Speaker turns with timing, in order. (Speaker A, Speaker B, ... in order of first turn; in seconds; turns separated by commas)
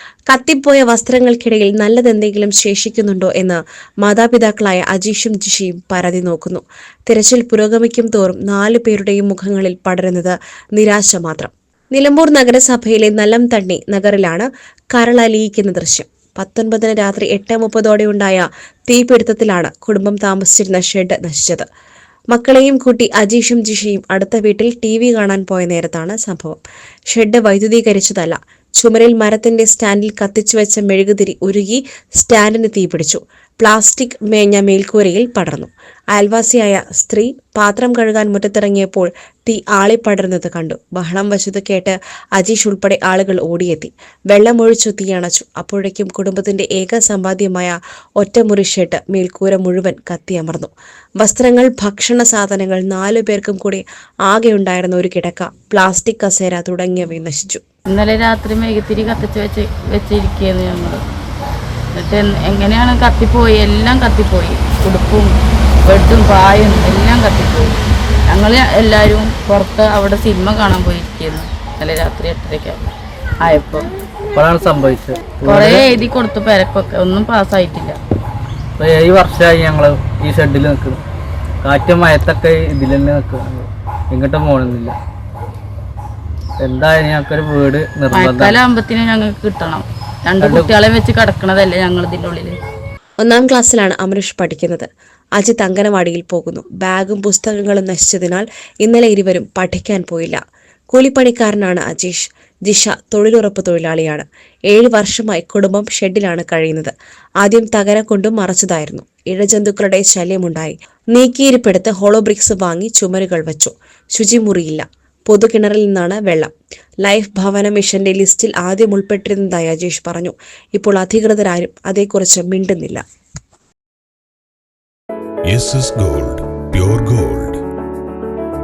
Speaker A: 0.3-21.6, Speaker A: 22.3-57.6, Speaker B: 57.9-61.0, Speaker B: 61.9-65.3, Speaker B: 65.8-67.8, Speaker B: 68.3-72.8, Speaker B: 73.4-73.9, Speaker C: 74.3-75.9, Speaker B: 75.4-78.0, Speaker C: 78.8-81.0, Speaker C: 81.6-85.0, Speaker C: 86.6-88.6, Speaker B: 88.1-92.6, Speaker C: 90.4-90.7, Speaker A: 93.2-100.4, Speaker A: 100.9-116.5, Speaker A: 117.0-123.0, Speaker D: 125.5-127.6